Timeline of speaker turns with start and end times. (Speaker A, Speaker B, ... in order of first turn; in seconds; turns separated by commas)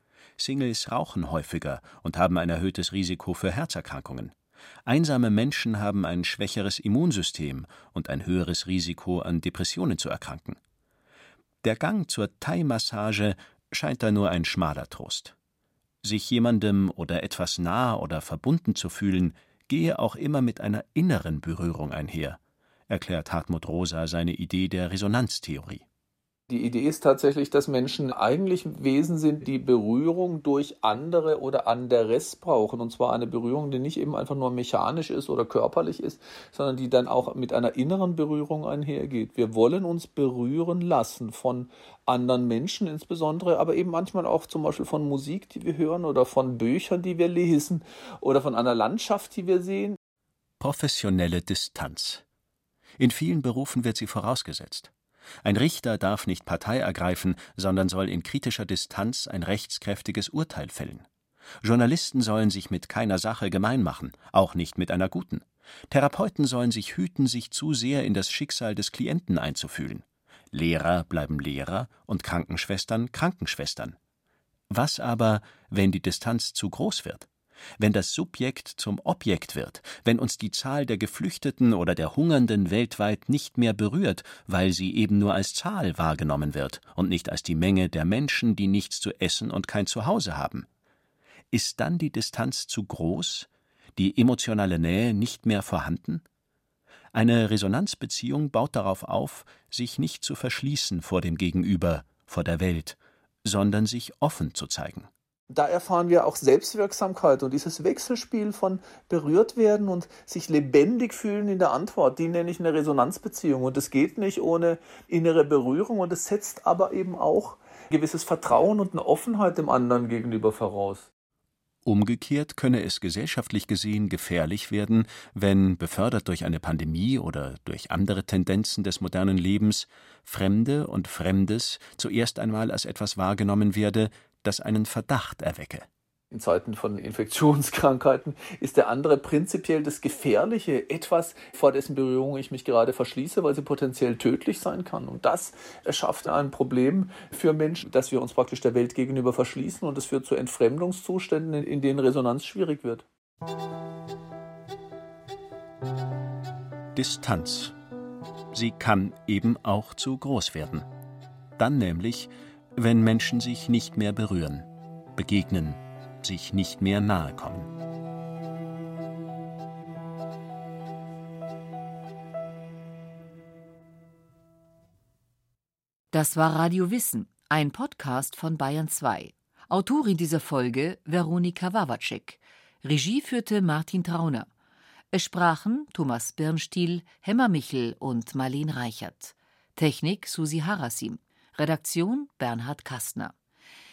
Speaker A: 0.4-4.3, Speaker A: 4.9-10.6, Speaker A: 11.6-15.3, Speaker A: 16.0-22.4, Speaker A: 22.9-25.8, Speaker B: 26.5-50.0, Speaker A: 50.6-52.2, Speaker A: 53.0-54.9, Speaker A: 55.4-61.0, Speaker A: 61.6-74.0, Speaker A: 74.7-77.3, Speaker A: 77.8-90.7, Speaker A: 91.5-96.2, Speaker A: 97.1-105.1, Speaker B: 105.5-121.1, Speaker A: 121.8-135.9, Speaker B: 136.3-153.1, Speaker A: 156.9-157.8, Speaker A: 158.5-160.9, Speaker A: 161.6-167.7, Speaker C: 176.1-184.5, Speaker C: 185.1-193.3